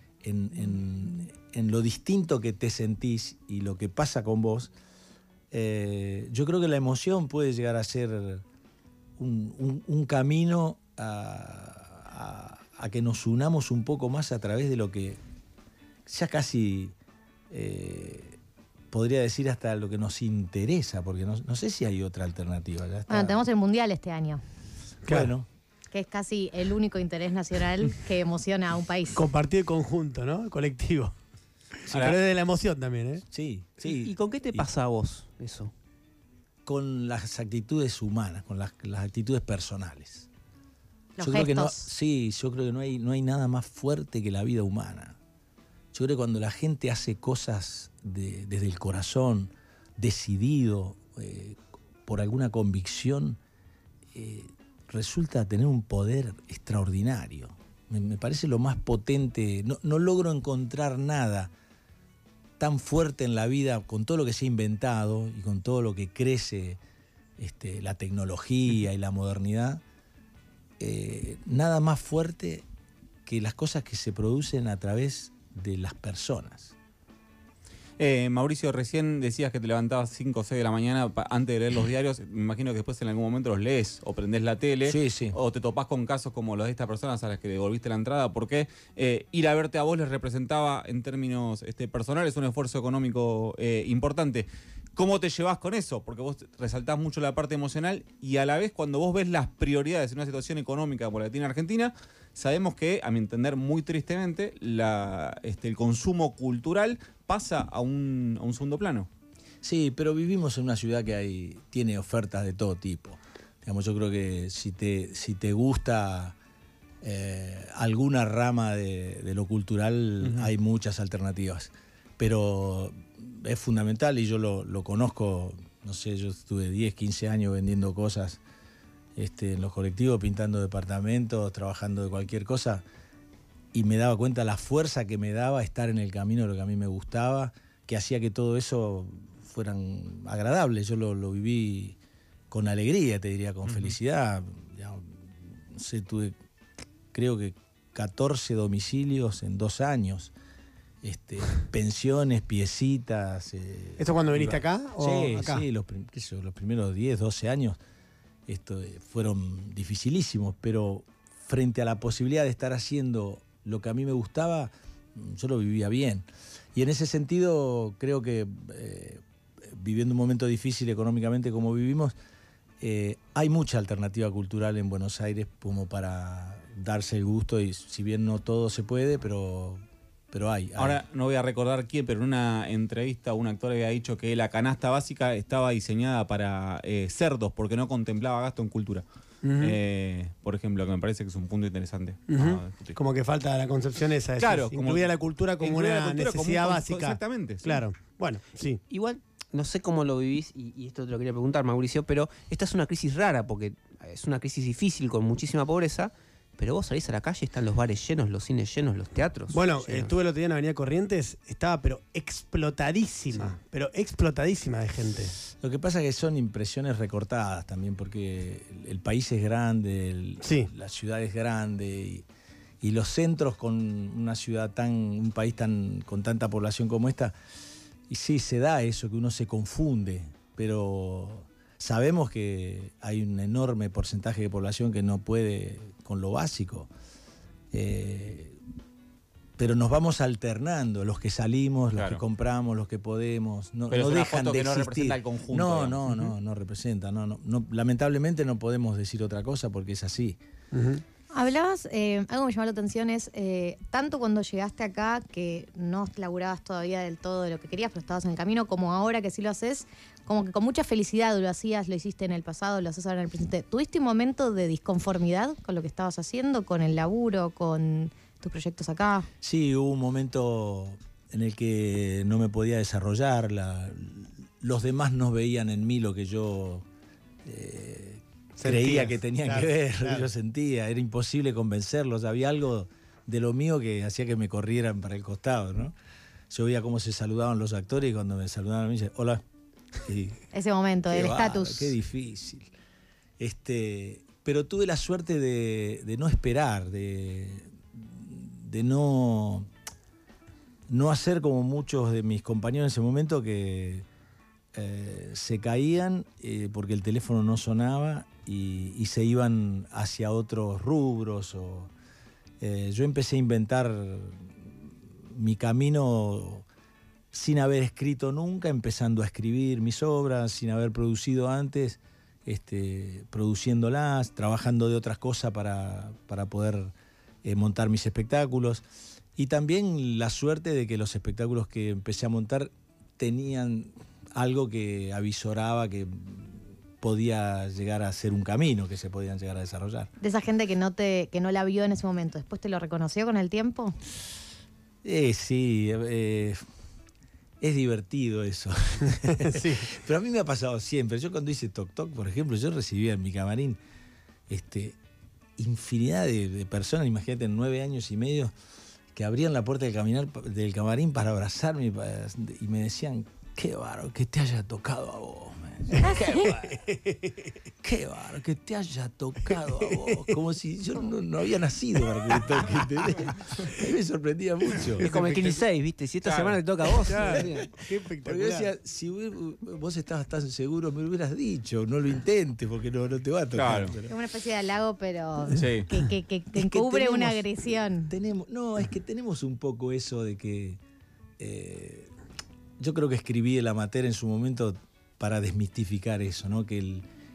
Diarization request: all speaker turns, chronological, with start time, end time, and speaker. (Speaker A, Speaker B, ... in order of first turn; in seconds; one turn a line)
Speaker A: 0.2-4.7
Speaker A: 5.5-8.4
Speaker A: 9.2-15.2
Speaker A: 16.1-16.9
Speaker A: 17.5-18.4
Speaker A: 18.9-23.4
Speaker B: 23.1-24.4
Speaker C: 25.1-25.3
Speaker A: 25.1-25.5
Speaker B: 25.9-29.2
Speaker C: 29.1-31.1
Speaker C: 31.8-33.2
Speaker D: 31.9-32.2
Speaker A: 33.3-34.7
Speaker E: 33.9-35.7
Speaker A: 36.7-40.3
Speaker B: 41.2-41.9
Speaker A: 41.2-45.2
Speaker A: 45.9-53.4
Speaker A: 54.1-61.5
Speaker A: 62.6-66.8
Speaker A: 67.4-69.8
Speaker A: 70.8-72.7
Speaker A: 73.3-76.8
Speaker D: 78.0-109.1
Speaker A: 84.8-85.4
Speaker A: 109.6-116.4
Speaker A: 117.0-128.4
Speaker D: 120.2-120.5
Speaker A: 129.2-132.8
Speaker A: 133.7-142.0
Speaker A: 142.5-146.3
Speaker A: 147.1-150.3
Speaker A: 151.0-157.8
Speaker C: 154.0-155.7
Speaker A: 158.5-172.2
Speaker A: 172.8-181.0
Speaker D: 180.8-189.0
Speaker C: 189.4-189.8
Speaker D: 189.6-193.0
Speaker C: 192.3-198.8
Speaker D: 194.4-197.8
Speaker E: 198.9-210.1
Speaker C: 209.5-215.4
Speaker A: 215.6-222.2
Speaker C: 220.4-220.7
Speaker A: 222.8-227.3
Speaker A: 228.1-236.9
Speaker A: 237.7-238.6
Speaker A: 239.6-250.4
Speaker D: 241.9-242.2
Speaker D: 243.9-246.3
Speaker C: 250.7-251.0
Speaker B: 251.3-269.3
Speaker A: 269.4-276.9
Speaker A: 277.4-285.9
Speaker C: 278.6-280.3
Speaker A: 286.5-289.4
Speaker A: 290.0-290.4
Speaker B: 290.5-291.9
Speaker A: 291.1-292.7
Speaker A: 293.4-299.7
Speaker A: 300.9-304.1
Speaker A: 304.7-311.9
Speaker A: 312.6-316.7
Speaker A: 317.3-328.9
Speaker A: 329.4-340.1
Speaker B: 340.2-344.0
Speaker A: 345.0-346.6
Speaker A: 347.6-353.8
Speaker C: 349.3-349.9
Speaker A: 354.5-355.0
Speaker A: 355.6-358.5
Speaker A: 359.1-366.9
Speaker C: 365.9-367.2
Speaker A: 367.8-375.0
Speaker C: 369.9-370.2
Speaker E: 375.0-377.7
Speaker C: 375.0-375.5
Speaker D: 375.1-375.6
Speaker D: 376.2-376.6
Speaker C: 377.1-378.7
Speaker A: 377.3-377.7
Speaker A: 378.2-384.1
Speaker D: 383.6-384.0
Speaker B: 384.1-388.1
Speaker D: 385.5-385.9
Speaker A: 386.5-390.8
Speaker A: 391.4-392.1
Speaker A: 392.8-397.1